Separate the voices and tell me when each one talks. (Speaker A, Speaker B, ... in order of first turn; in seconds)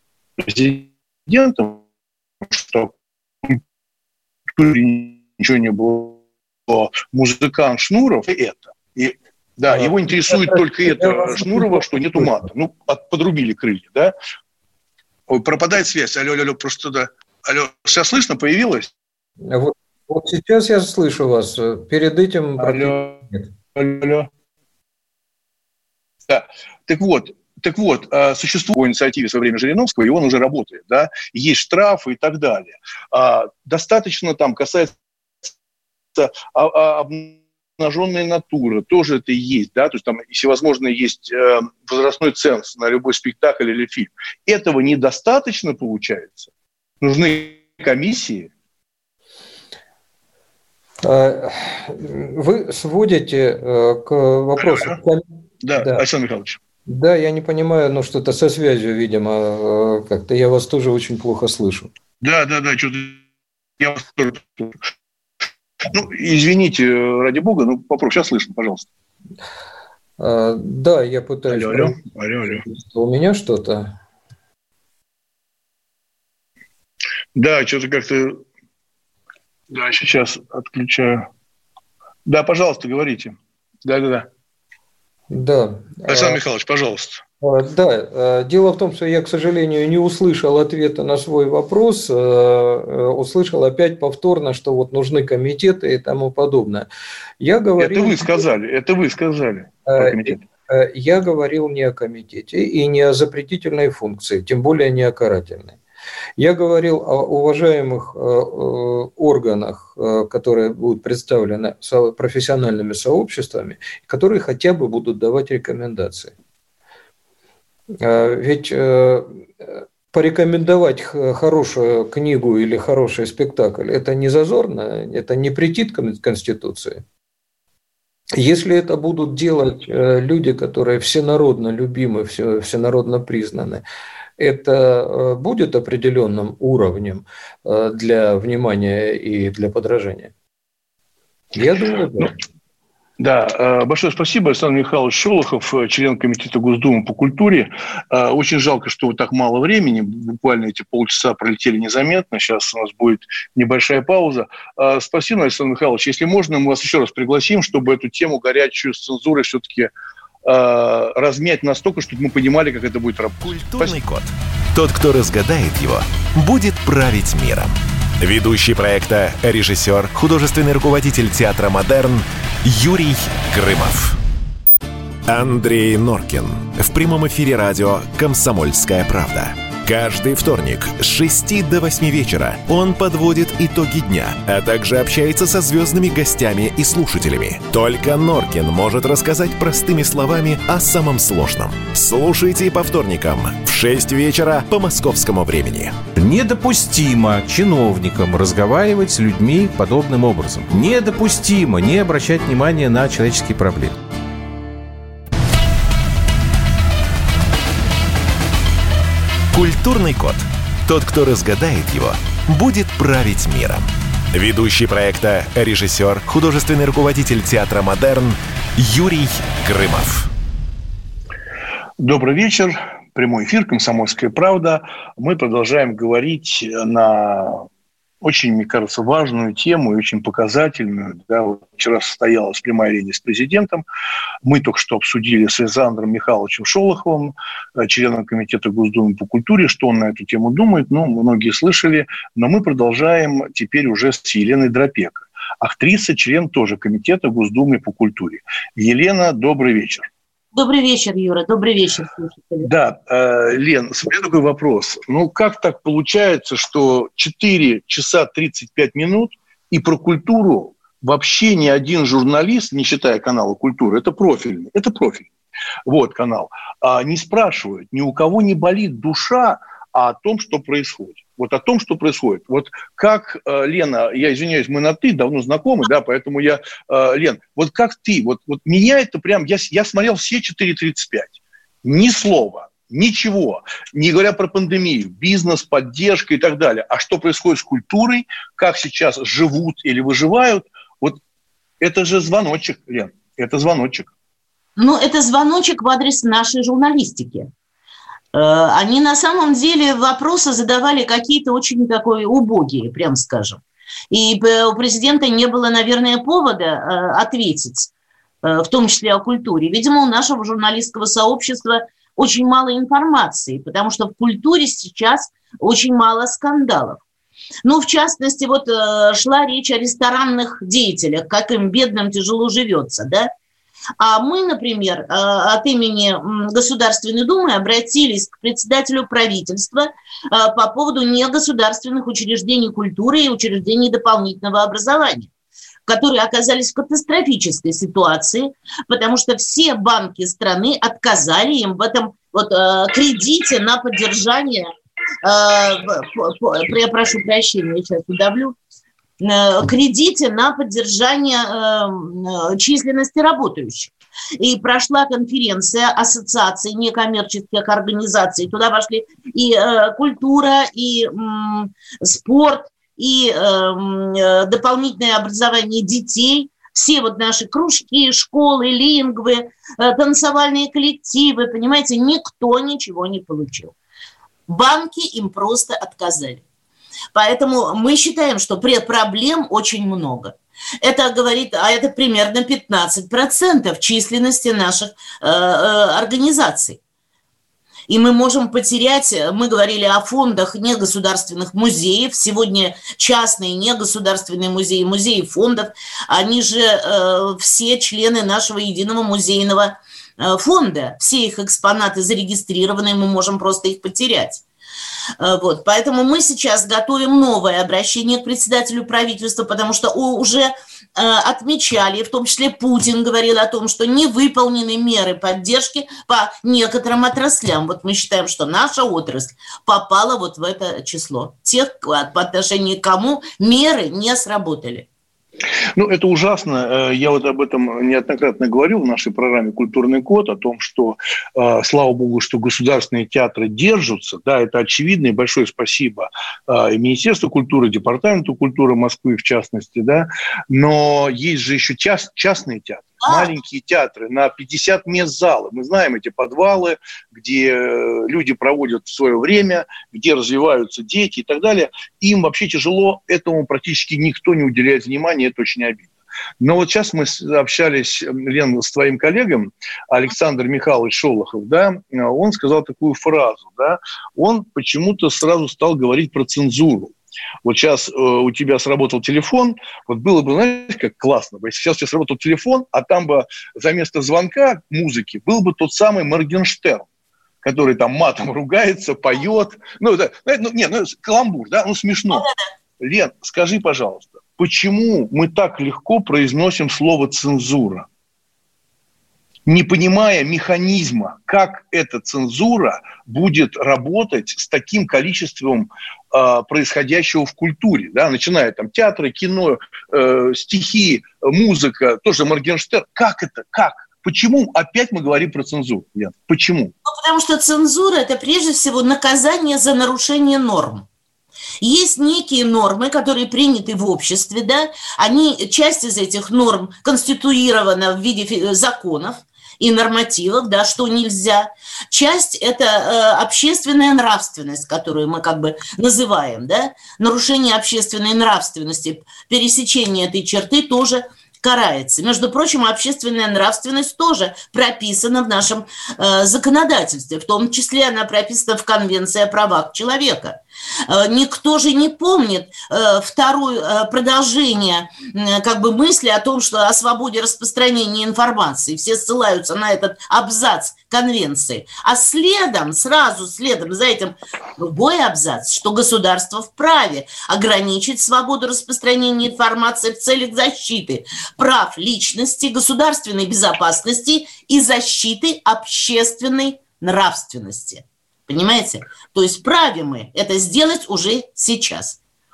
Speaker A: 0.4-1.8, 2.4-3.6, 4.5-14.1, 15.3-18.9, 22.6-23.2, 23.7-24.3, 26.3-35.5, 36.1-48.5, 54.6-55.0, 55.6-56.6, 62.2-63.2, 63.8-64.8, 65.9-68.9, 71.5-72.6, 77.3-78.4, 79.7-81.3, 82.2-84.3, 86.1-87.2, 97.8-100.4, 143.2-159.9, 160.4-164.0, 222.0-227.7, 228.2-233.8, 234.4-250.1, 252.6-265.3, 265.9-291.2, 291.8-294.1, 425.8-476.9, 477.4-482.3, 482.8-487.9, 489.4-506.7
Speaker B: 9.7-12.4, 19.4-23.5, 51.0-55.2, 55.8-56.0, 56.9-61.9, 70.2-74.0, 85.3-86.4, 87.4-96.9, 97.4-98.4, 99.8-105.8, 106.4-116.3, 118.0-119.4, 120.1-127.0, 128.3-133.8, 134.4-140.3, 141.5-142.3
Speaker C: 163.4-174.2, 175.2-196.0, 209.5-220.3
Speaker D: 196.2-203.9
Speaker E: 250.5-252.7, 294.8-297.5, 298.3-307.9, 308.4-317.0, 317.6-323.3, 324.0-335.3, 335.9-344.7, 345.2-348.5, 349.2-373.7, 374.5-376.4, 377.1-386.8, 387.9-404.4, 405.2-424.9, 443.0-443.3, 506.8-510.9, 511.6-572.0